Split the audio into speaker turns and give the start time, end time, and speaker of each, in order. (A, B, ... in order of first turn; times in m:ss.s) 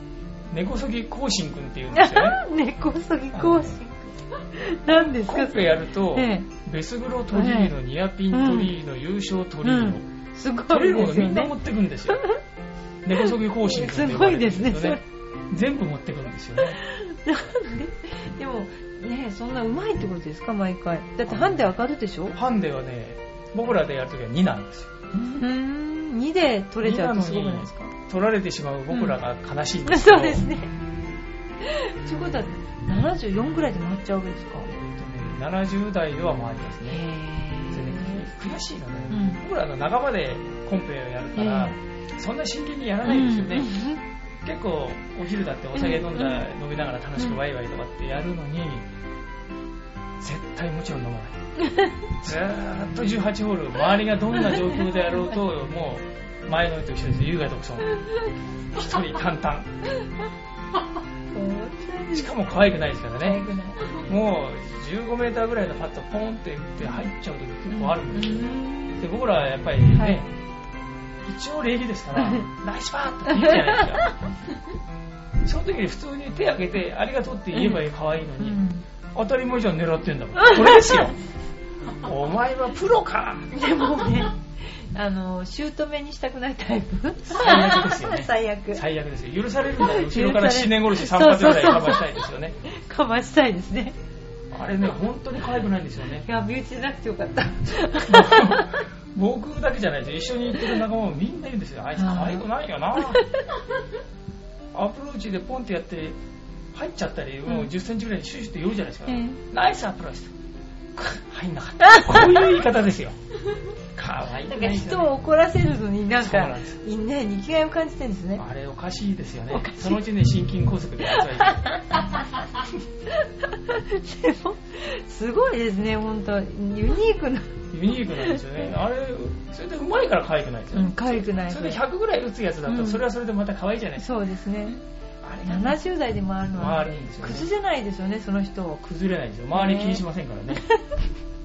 0:00.5-0:02.4 A
0:01.9-0:06.5 B
0:03.3-0:03.8 A
0:04.9-0:10.0 A
0:07.3-0:07.7 B
0:08.3-0:08.7 B
0:09.6-0:11.5 B
0:10.6-0:12.2 A
0:12.1-0:12.4 B
0:13.0-0:16.8 A
0:13.2-0:15.0 B
0:16.8-0:22.4 B
0:21.3-0:21.6 A
0:22.3-0:24.9 A
0:25.1-0:27.9 B
0:26.8-0:30.5 A
0:28.9-0:29.2 B
0:29.8-0:30.7 B
0:31.6-0:34.7 B
0:34.6-0:37.0 A
0:36.9-0:38.3 B
0:37.7-0:43.7 A
0:39.1-0:39.4 B
0:41.4-0:41.8 B
0:43.0-0:44.0 B
0:44.4-0:48.9 A
0:45.7-0:46.4 B
0:50.2-0:51.4 A
0:51.6-0:52.0 B
0:52.2-0:57.9 A
0:54.4-0:54.8 B
0:58.7-0:59.7 A
1:01.3-1:02.3 B
1:02.1-1:10.3 A
1:03.2-1:04.0 B
1:07.7-1:09.0 B
1:09.9-1:10.2 B
1:11.2-1:14.1 A
1:12.2-1:12.5 B
1:13.3-1:14.1 B
1:15.4-1:18.6 A
1:17.5-1:17.8 B
1:18.4-1:18.8 B
1:19.1-1:21.2 A
1:20.4-1:21.0 B
1:22.0-1:23.5 A
1:23.5-1:28.8 B
1:27.3-1:32.6 A
1:29.8-1:32.1 B
1:32.6-1:33.9 B
1:34.5-1:36.2 A
1:36.2-1:38.8 B
1:37.9-1:43.2 A
1:42.0-1:42.4 B
1:44.7-1:46.2 A
1:46.7-1:50.3 A
1:49.1-1:49.4 B
1:50.9-1:53.1 A
1:51.8-1:52.1 B
1:53.9-1:55.1 A
1:54.5-1:58.4 B
1:56.2-1:56.8 A
1:58.4-2:01.7 A
1:59.5-2:00.0 B
2:01.1-2:02.2 B
2:03.1-2:07.6 B
2:07.7-2:14.1 A
2:10.7-2:11.8 B
2:12.6-2:13.0 B
2:14.0-2:14.8 B
2:15.2-2:15.8 A
2:15.4-2:18.8 B
2:16.5-2:17.5 A
2:18.8-2:20.6 A
2:19.5-2:21.0 B